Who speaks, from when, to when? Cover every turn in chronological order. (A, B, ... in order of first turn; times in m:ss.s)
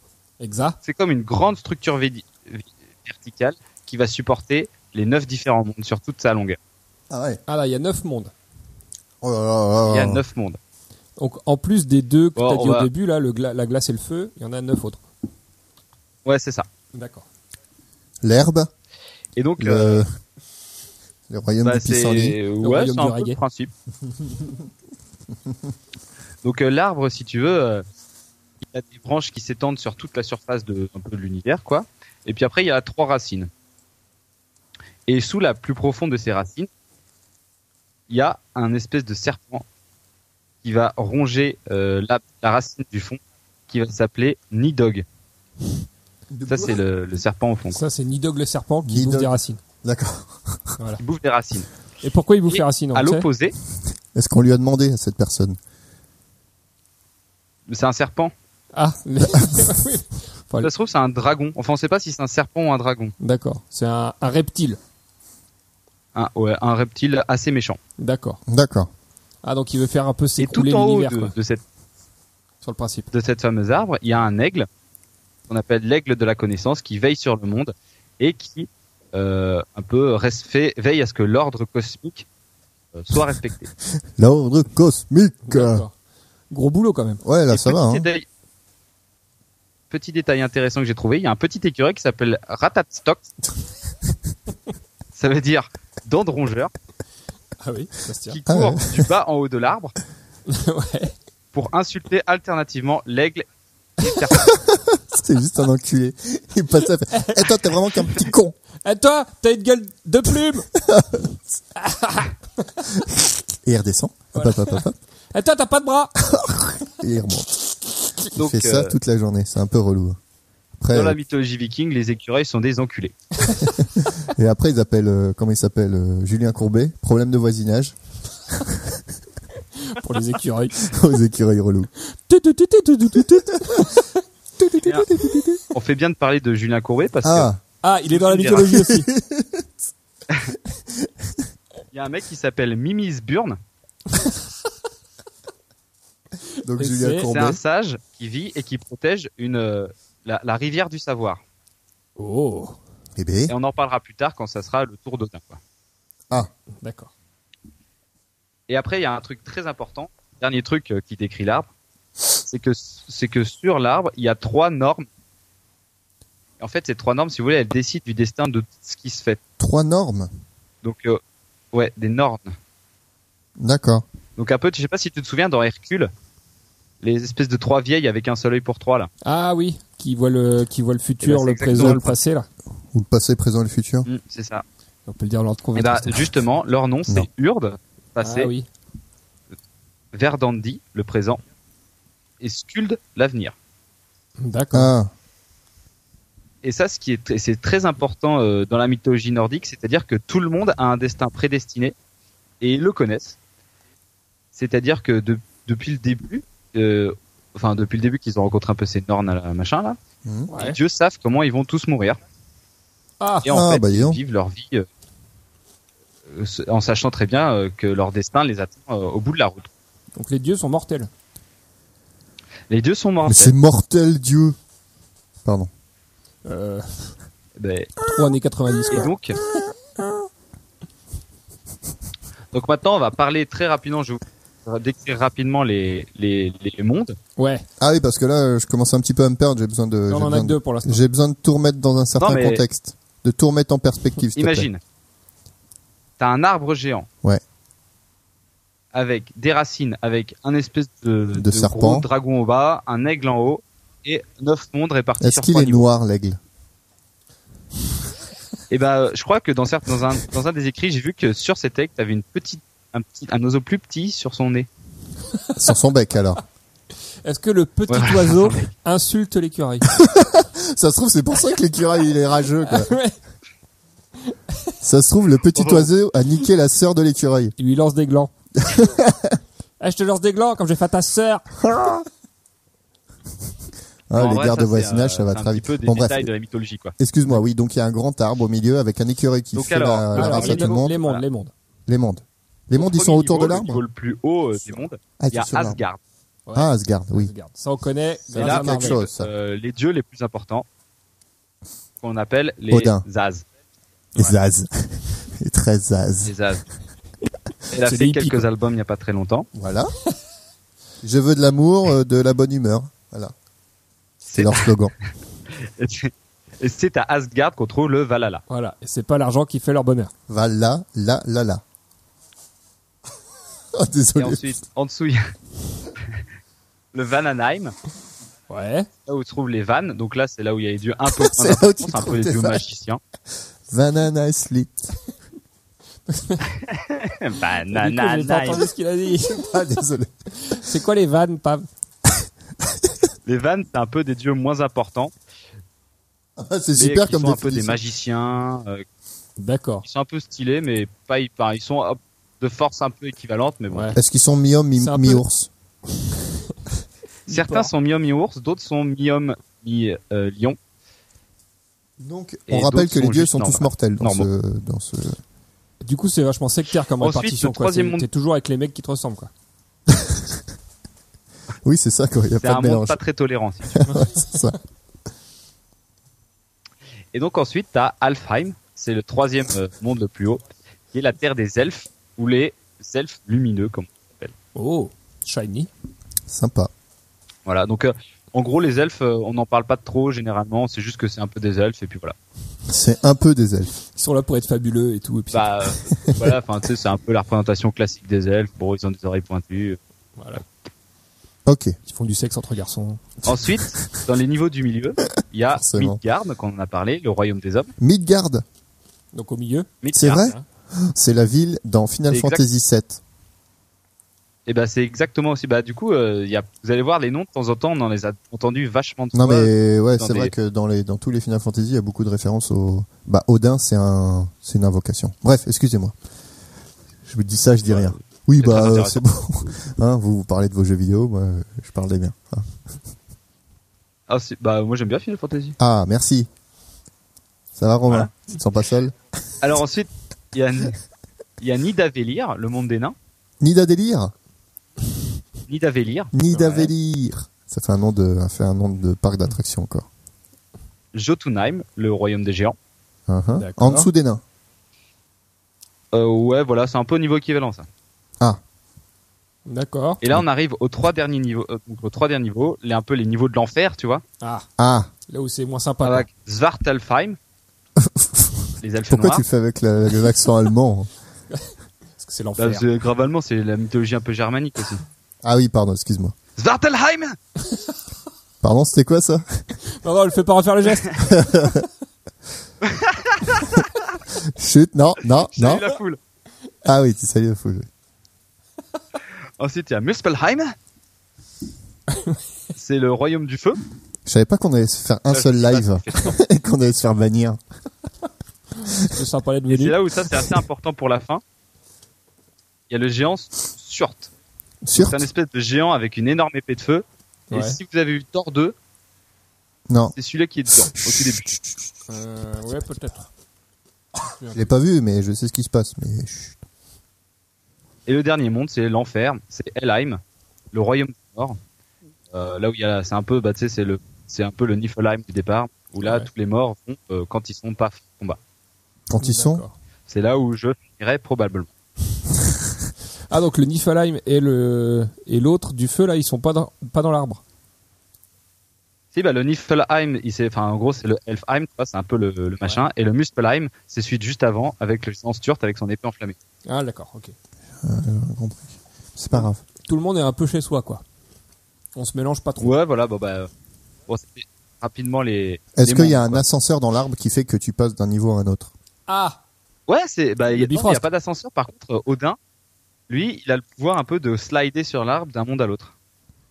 0:00.4-0:00.8 A
0:00.8-0:06.6 B
0:07.1-0:07.4 C
0:07.5-0:08.3 A
0:09.2-0:10.2 C
0:09.9-0:10.6 B
0:11.2-0:15.0 A
0:12.4-0:12.9 B
0:16.2-0:16.7 B
0:16.9-0:17.2 A
0:18.2-0:18.7 C
0:19.4-0:20.0 B
0:19.6-0:20.1 C
0:21.3-0:22.4 C
0:21.6-0:23.7 B
0:22.6-0:23.4 A
0:26.4-0:27.8 B
0:28.6-0:33.5 B
0:35.1-0:36.7 B
0:38.1-0:39.6 B
0:40.6-0:45.0 B
0:46.3-0:46.8 C
0:46.5-0:47.8 B
0:47.7-0:49.6 A
0:48.8-0:50.7 C
0:51.0-0:51.7 B
0:52.0-0:53.3 A
0:52.5-0:53.6 B
0:54.1-0:55.6 C
0:57.7-0:58.3 B
0:58.7-1:00.7 A
1:00.6-1:03.1 B
1:03.2-1:04.8 A
1:06.1-1:07.8 B
1:08.0-1:08.4 A
1:08.5-1:08.9 C
1:09.4-1:11.3 A
1:10.4-1:11.6 B
1:12.6-1:13.1 A
1:13.1-1:14.7 B
1:15.5-1:22.2 B
1:22.9-1:23.7 B
1:24.2-1:25.8 C
1:25.4-1:25.9 A
1:26.5-1:27.2 A
1:27.2-1:28.0 C
1:27.5-1:28.2 B
1:29.9-1:33.2 B
1:35.1-1:36.7 B
1:37.6-1:38.4 A
1:38.3-1:39.9 B
1:38.5-1:39.1 C
1:40.5-1:41.1 A
1:41.5-1:43.4 B
1:44.0-1:44.4 B
1:44.5-1:48.6 C
1:47.1-1:47.5 A
1:48.8-1:50.7 A
1:50.7-1:51.4 C
1:51.8-1:52.3 A
1:53.6-1:55.0 C
1:54.3-1:54.8 A
1:55.3-1:56.3 A
1:56.9-1:57.5 C
1:58.3-2:00.2 C
1:58.3-1:59.0 B
2:00.8-2:01.2 C
2:00.9-2:03.2 B
2:03.8-2:08.0 C
2:08.5-2:09.0 C
2:09.8-2:10.8 A
2:10.8-2:11.9 C
2:12.3-2:15.6 A
2:14.8-2:15.1 B
2:15.7-2:17.5 B
2:17.2-2:17.6 C
2:17.8-2:19.1 A
2:18.1-2:18.7 B
2:18.7-2:19.7 C
2:21.0-2:21.3 C
2:21.9-2:23.6 B
2:26.6-2:27.6 C
2:26.8-2:27.3 A
2:27.2-2:31.4 B
2:32.2-2:32.8 A
2:33.2-2:33.5 C
2:33.5-2:35.6 B
2:36.8-2:37.1 A
2:38.7-2:41.7 B
2:42.4-2:45.0 B
2:46.6-2:49.4 B
2:49.6-2:50.3 C
2:50.8-2:51.2 B
2:51.7-2:52.5 B
2:53.6-2:54.0 C
2:54.4-2:56.1 B
2:57.0-2:59.1 B
2:59.2-3:02.5 A
3:01.2-3:02.1 B
3:01.7-3:02.1 C
3:02.9-3:04.1 C
3:04.0-3:04.6 B
3:05.1-3:06.3 A
3:05.8-3:08.5 B
3:08.2-3:08.7 A
3:10.1-3:11.4 B
3:12.4-3:13.5 B
3:14.4-3:14.9 A
3:14.7-3:15.1 C
3:16.6-3:21.9 B
3:22.6-3:23.4 B
3:24.5-3:30.0 B
3:30.5-3:30.8 A
3:30.6-3:32.2 B
3:33.2-3:33.5 A
3:33.4-3:34.9 B
3:33.5-3:34.2 C
3:36.3-3:39.7 B
3:40.2-3:41.1 A
3:42.7-3:43.5 B
3:43.3-3:44.6 C
3:46.4-3:47.1 A
3:47.6-3:48.0 B
3:48.1-3:49.1 A
3:48.9-3:49.4 B
3:52.5-3:57.2 B
3:57.4-3:57.6 A
3:57.8-4:04.7 C
4:00.1-4:01.0 A
4:02.2-4:02.6 B
4:04.3-4:04.8 B
4:06.2-4:07.1 B
4:08.9-4:15.9 B
4:11.4-4:12.1 C
4:15.2-4:16.4 C
4:18.7-4:24.7 B
4:25.6-4:26.4 C
4:27.2-4:29.9 A
4:27.9-4:28.7 B
4:29.9-4:32.9 C
4:32.6-4:33.1 A
4:34.2-4:34.7 A
4:34.8-4:37.5 C
4:35.5-4:35.9 B
4:37.6-4:38.3 A
4:38.6-4:39.4 C
4:39.8-4:41.6 A
4:41.6-4:42.0 C
4:44.1-4:46.3 C
4:44.1-4:46.9 B
4:47.0-4:50.9 C
4:49.5-4:51.2 B
4:50.1-4:51.5 A
4:51.9-4:53.8 C
4:52.7-4:56.0 B
4:54.6-4:55.8 C
4:56.5-4:59.0 A
4:56.5-4:57.3 C
4:58.3-4:59.3 C
4:58.4-5:00.6 B
5:02.0-5:03.4 B
5:02.7-5:03.0 C
5:04.2-5:06.3 C
5:06.2-5:06.6 B
5:07.7-5:09.5 B
5:07.8-5:08.4 A
5:09.5-5:09.9 C
5:11.0-5:13.3 C
5:14.2-5:14.7 B
5:14.3-5:14.9 C
5:15.6-5:18.4 B
5:18.5-5:20.1 A
5:20.3-5:21.6 C
5:23.7-5:24.6 C
5:24.2-5:25.2 B
5:26.9-5:27.7 B
5:28.5-5:28.9 A
5:29.1-5:33.0 B
5:31.1-5:32.6 C
5:33.7-5:34.9 C
5:36.1-5:36.4 A
5:36.6-5:38.6 B
5:37.7-5:39.4 A
5:39.2-5:40.6 C
5:40.4-5:41.7 A
5:43.2-5:45.1 B
5:46.4-5:47.8 C
5:46.8-5:48.8 B
5:49.4-5:49.8 A
5:49.8-5:53.9 B
5:53.7-5:54.0 A
5:53.9-5:55.5 C
5:54.8-5:55.2 A
5:57.3-6:00.6 B
5:57.3-5:57.7 A
6:02.0-6:05.2 C
6:02.5-6:04.3 B
6:05.8-6:09.3 A
6:07.0-6:08.0 B
6:09.9-6:10.4 C
6:11.6-6:13.0 C
6:12.4-6:13.9 B
6:13.7-6:14.6 C
6:17.1-6:24.3 B
6:24.5-6:25.7 A
6:26.3-6:26.7 C
6:27.4-6:32.2 B
6:32.7-6:33.7 C
6:33.9-6:35.5 A
6:35.3-6:39.8 B
6:40.2-6:40.4 A
6:41.4-6:41.8 C
6:41.9-6:43.0 A
6:43.2-6:47.7 B
6:45.5-6:46.0 C
6:47.8-6:48.4 C
6:49.1-6:50.4 A
6:49.8-6:50.2 B
6:49.9-6:53.0 C
6:52.1-6:52.4 B
6:54.5-7:00.3 B
6:59.1-7:05.9 C
7:07.0-7:12.6 C
7:07.7-7:09.0 B
7:14.1-7:15.6 B
7:15.6-7:16.3 C
7:17.5-7:18.9 C
7:19.4-7:20.8 B
7:21.4-7:22.9 B
7:23.4-7:24.1 C
7:25.5-7:26.1 B
7:26.1-7:29.9 C
7:26.3-7:26.7 A
7:30.9-7:32.6 B
7:33.1-7:34.2 C
7:33.4-7:33.9 A
7:35.9-7:37.7 B
7:39.5-7:40.0 A
7:40.0-7:44.0 B
7:44.2-7:44.5 A
7:44.6-7:44.9 C
7:45.1-7:46.1 A
7:45.8-7:47.2 B
7:47.8-7:50.9 C
7:48.6-7:49.2 B
7:51.3-7:52.6 A
7:52.4-7:54.8 B
7:55.2-7:56.1 C
7:56.4-7:57.2 B
7:58.4-7:59.4 C
7:59.8-8:01.0 A
8:01.0-8:01.7 C
8:02.6-8:03.6 B
8:04.2-8:05.6 C
8:05.3-8:06.0 B
8:06.6-8:07.7 C
8:09.4-8:10.5 B
8:12.5-8:13.6 B
8:14.0-8:17.4 C
8:15.1-8:16.2 B
8:18.7-8:19.8 A
8:19.5-8:21.2 B
8:22.7-8:24.1 B
8:24.6-8:25.1 C
8:24.7-8:28.5 B
8:27.3-8:27.6 A
8:29.7-8:29.9 C
8:29.9-8:31.4 B
8:30.8-8:31.2 C
8:31.9-8:33.0 A
8:34.2-8:34.4 A
8:34.3-8:36.4 C
8:37.9-8:40.0 B
8:40.5-8:41.4 B
8:42.1-8:48.2 B
8:45.8-8:46.1 A
8:48.9-8:49.4 C
8:49.0-8:49.5 A
8:49.9-8:51.5 B
8:53.1-8:57.2 A
8:58.9-9:06.2 B
9:06.5-9:07.1 A
9:07.6-9:09.4 C
9:09.7-9:10.8 A
9:11.8-9:12.5 A
9:12.4-9:13.3 B
9:13.9-9:16.2 B
9:15.6-9:18.5 C
9:18.9-9:19.2 A
9:19.7-9:22.2 B
9:20.3-9:20.8 A
9:22.9-9:25.7 B